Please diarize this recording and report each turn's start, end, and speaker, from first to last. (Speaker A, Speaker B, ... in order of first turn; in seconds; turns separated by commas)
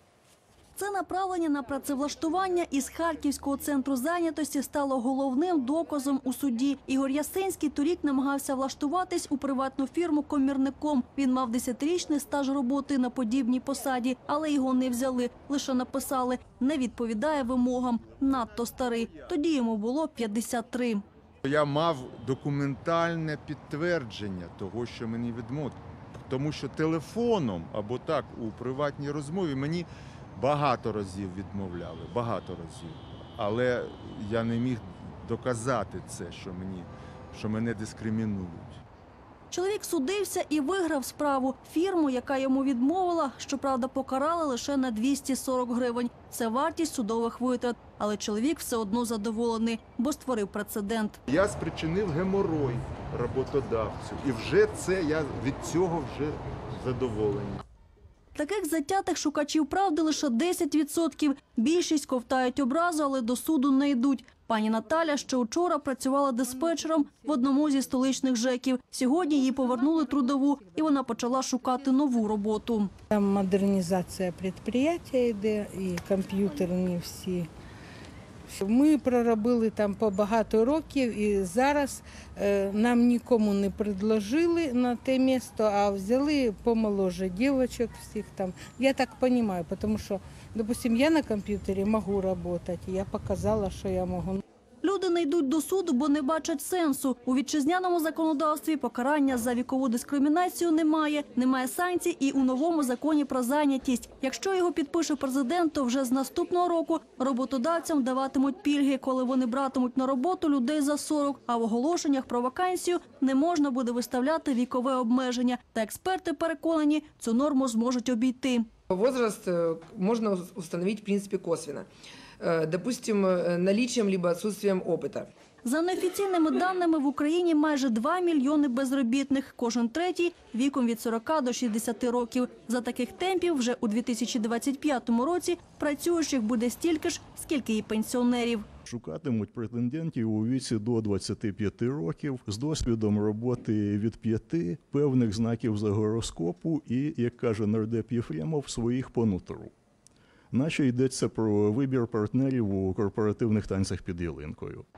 Speaker A: 0.8-21.0, Speaker B: 21.4-38.8, Speaker A: 39.5-51.2, Speaker B: 51.3-57.6, Speaker A: 58.4-72.9, Speaker C: 73.1-77.5, Speaker C: 78.5-94.4, Speaker A: 94.8-118.7, Speaker D: 118.9-121.9, Speaker D: 122.4-125.3, Speaker A: 125.6-138.7, Speaker E: 138.9-149.7, Speaker E: 150.5-154.8